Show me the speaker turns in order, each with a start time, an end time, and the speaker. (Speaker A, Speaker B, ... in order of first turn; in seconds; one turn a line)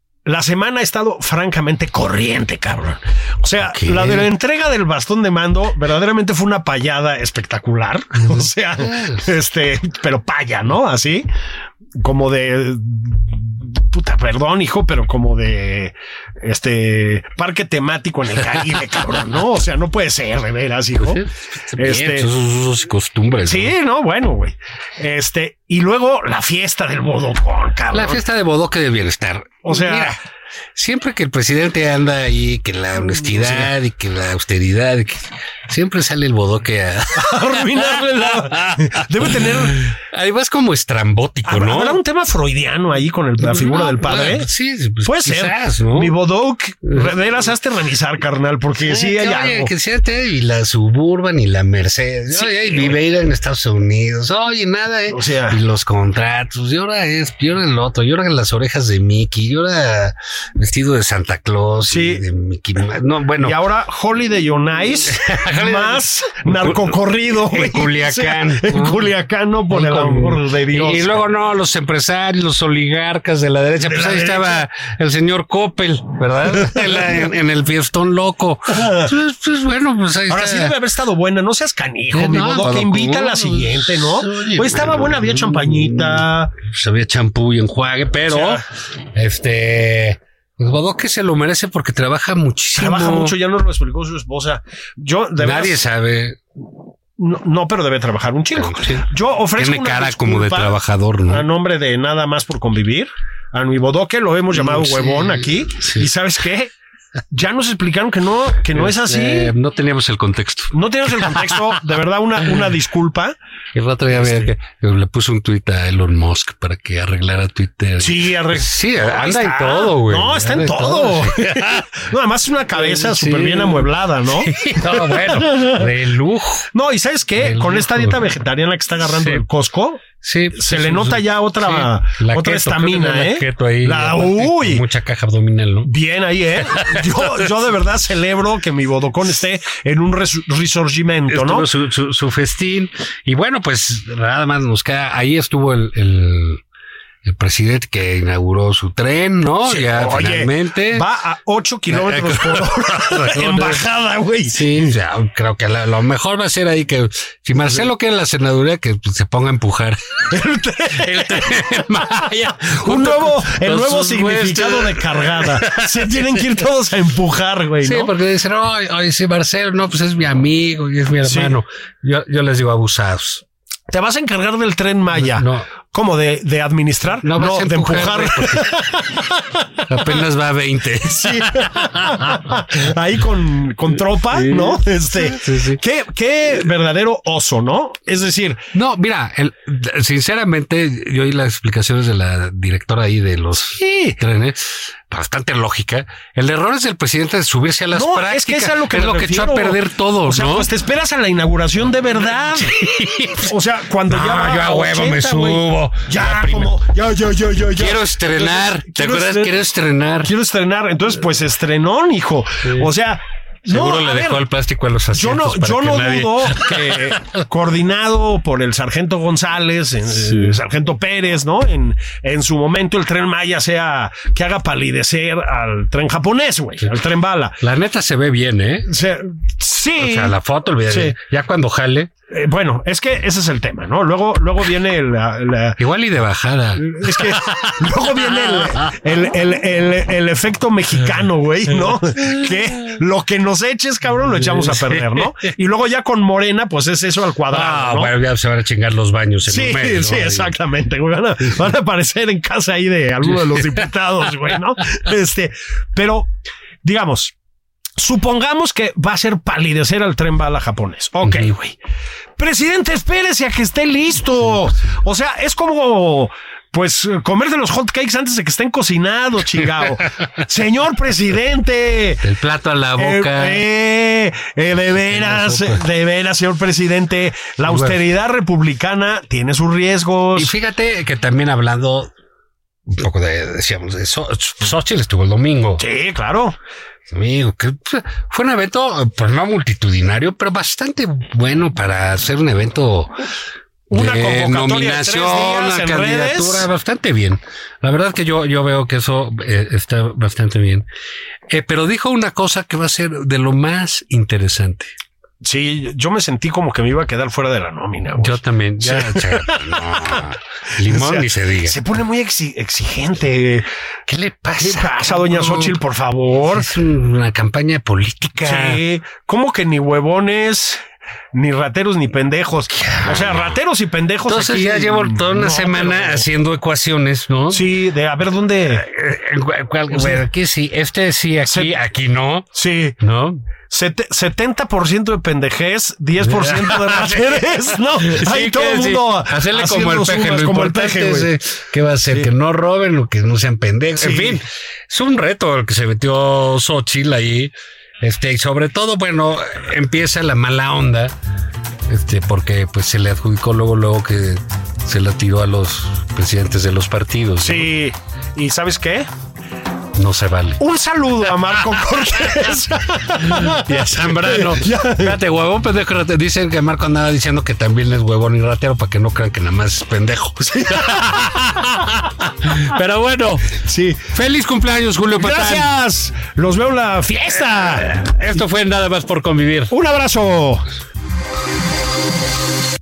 Speaker A: 0.2-11.3
Speaker B: 3.6-4.3
Speaker B: 8.2-9.3
Speaker A: 12.0-21.2
Speaker B: 21.0-23.8
Speaker A: 21.8-22.3
Speaker A: 23.4-28.2
Speaker B: 27.9-30.2
Speaker A: 29.6-30.2
Speaker B: 30.7-42.0
Speaker A: 33.1-33.7
Speaker A: 37.2-39.9
Speaker A: 41.5-44.5
Speaker B: 43.4-46.1
Speaker A: 45.0-49.7
Speaker B: 48.8-63.6
Speaker A: 52.3-53.0
Speaker A: 55.1-55.6
Speaker A: 61.9-62.2
Speaker A: 63.4-71.2
Speaker B: 65.1-69.1
Speaker B: 69.7-80.8
Speaker A: 73.8-74.6
Speaker A: 76.6-76.9
Speaker A: 78.7-79.1
Speaker A: 80.3-86.6
Speaker B: 82.1-93.3
Speaker A: 88.3-88.6
Speaker A: 92.8-95.8
Speaker B: 95.4-96.4
Speaker A: 97.2-100.7
Speaker B: 98.5-101.5
Speaker A: 101.3-106.7
Speaker B: 104.5-106.1
Speaker A: 107.3-109.5
Speaker B: 108.7-111.5
Speaker A: 110.7-113.3
Speaker B: 113.7-121.8
Speaker A: 114.1-114.5
Speaker A: 118.0-125.9
Speaker B: 122.7-126.7
Speaker A: 126.7-134.8
Speaker B: 127.4-128.2
Speaker B: 129.0-129.4
Speaker B: 130.2-135.9
Speaker A: 135.8-141.7
Speaker B: 141.3-146.6
Speaker B: 147.2-151.0
Speaker A: 149.7-154.9
Speaker B: 151.9-153.8
Speaker B: 154.4-160.4
Speaker A: 160.3-168.1
Speaker B: 160.9-166.6
Speaker B: 167.8-173.4
Speaker A: 171.2-171.5
Speaker A: 173.9-179.8
Speaker B: 175.2-175.7
Speaker B: 177.2-178.8
Speaker B: 179.8-182.4
Speaker A: 181.1-188.6
Speaker B: 184.1-185.8
Speaker B: 188.7-200.7
Speaker A: 193.8-194.2
Speaker A: 197.9-202.7
Speaker B: 202.5-203.5
Speaker A: 203.4-209.5
Speaker B: 204.1-206.8
Speaker B: 207.7-210.3
Speaker A: 210.2-214.4
Speaker B: 212.6-212.9
Speaker B: 213.7-217.4
Speaker A: 215.1-227.6
Speaker B: 220.1-220.6
Speaker B: 227.6-228.9
Speaker A: 228.9-230.3
Speaker B: 230.0-232.1
Speaker A: 230.9-231.1
Speaker A: 232.3-235.8
Speaker B: 235.8-237.6
Speaker A: 236.8-248.1
Speaker B: 238.3-238.9
Speaker B: 244.2-245.3
Speaker B: 247.5-250.6
Speaker A: 249.5-256.3
Speaker B: 253.2-253.9
Speaker A: 256.8-257.3
Speaker A: 258.0-261.8
Speaker B: 261.2-261.5
Speaker A: 262.4-272.3
Speaker B: 264.4-264.9
Speaker B: 272.2-273.6
Speaker A: 273.0-280.5
Speaker B: 274.9-275.8
Speaker B: 277.6-278.0
Speaker B: 280.3-282.1
Speaker B: 282.9-285.8
Speaker A: 285.8-286.6
Speaker B: 287.1-293.2
Speaker A: 293.9-296.6
Speaker B: 293.9-300.9
Speaker B: 301.5-304.9
Speaker A: 305.4-310.2
Speaker B: 308.2-311.8
Speaker A: 310.8-313.7
Speaker B: 314.1-315.8
Speaker A: 314.6-316.7
Speaker B: 316.5-318.8
Speaker A: 318.4-320.8
Speaker A: 321.3-326.2
Speaker B: 322.7-323.6
Speaker B: 324.3-327.7
Speaker A: 327.5-328.8
Speaker B: 328.6-332.5
Speaker A: 329.9-330.2
Speaker A: 331.5-331.7
Speaker A: 332.5-333.0
Speaker B: 333.0-333.4
Speaker A: 333.7-341.3
Speaker B: 336.2-351.1
Speaker A: 344.0-344.4
Speaker B: 351.9-357.7
Speaker A: 357.4-359.1
Speaker B: 359.9-360.6
Speaker A: 360.6-365.2
Speaker B: 363.2-371.8
Speaker A: 370.5-371.6
Speaker B: 372.4-373.6
Speaker A: 373.6-374.0
Speaker B: 374.1-375.7
Speaker A: 375.2-378.1
Speaker B: 377.8-379.7
Speaker A: 379.7-380.6